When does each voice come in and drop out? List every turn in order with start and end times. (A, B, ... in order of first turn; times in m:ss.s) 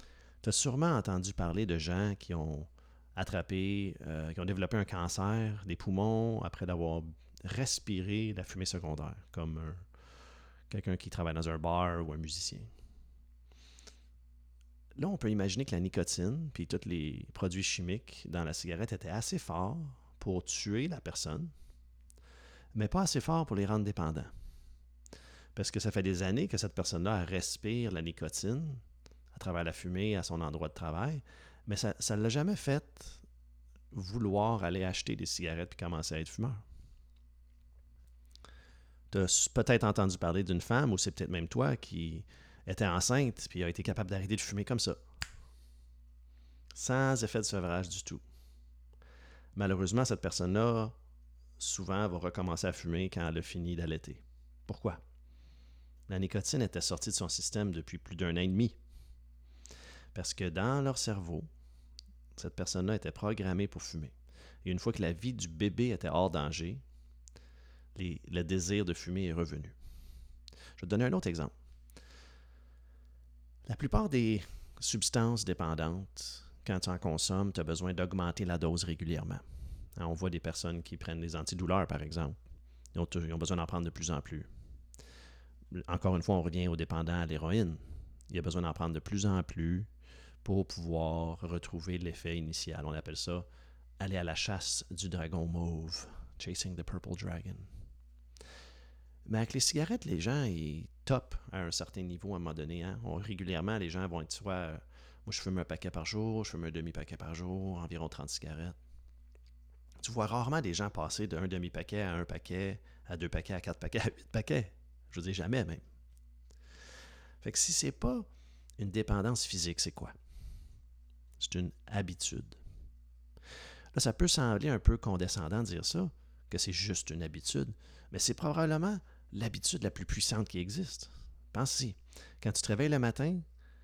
0:00.4-0:09.8 A
0:10.7-0:12.7 A
0:15.0-0:21.5 A
0:22.7-0:24.3 A
0:25.5-0:33.2 A
0:33.9-0:36.6 A
0:39.1-0:45.0 A
0:46.7-0:48.2 A
0:49.5-0:50.9 A
0:51.6-0:55.0 A
0:56.1-0:58.8 A
1:00.1-1:01.5 A
1:02.4-1:06.8 A
1:07.9-1:09.8 A
1:10.8-1:11.5 A
1:13.6-1:19.4 A
1:20.0-1:22.4 A
1:22.9-1:24.5 A
1:25.7-1:29.9 A
1:30.4-1:33.4 A
1:34.0-1:37.7 A
1:39.2-1:48.8 A
1:50.0-1:55.8 A
1:57.4-1:58.3 A
1:58.8-2:00.1 A
2:01.4-2:02.6 A
2:03.9-2:13.4 A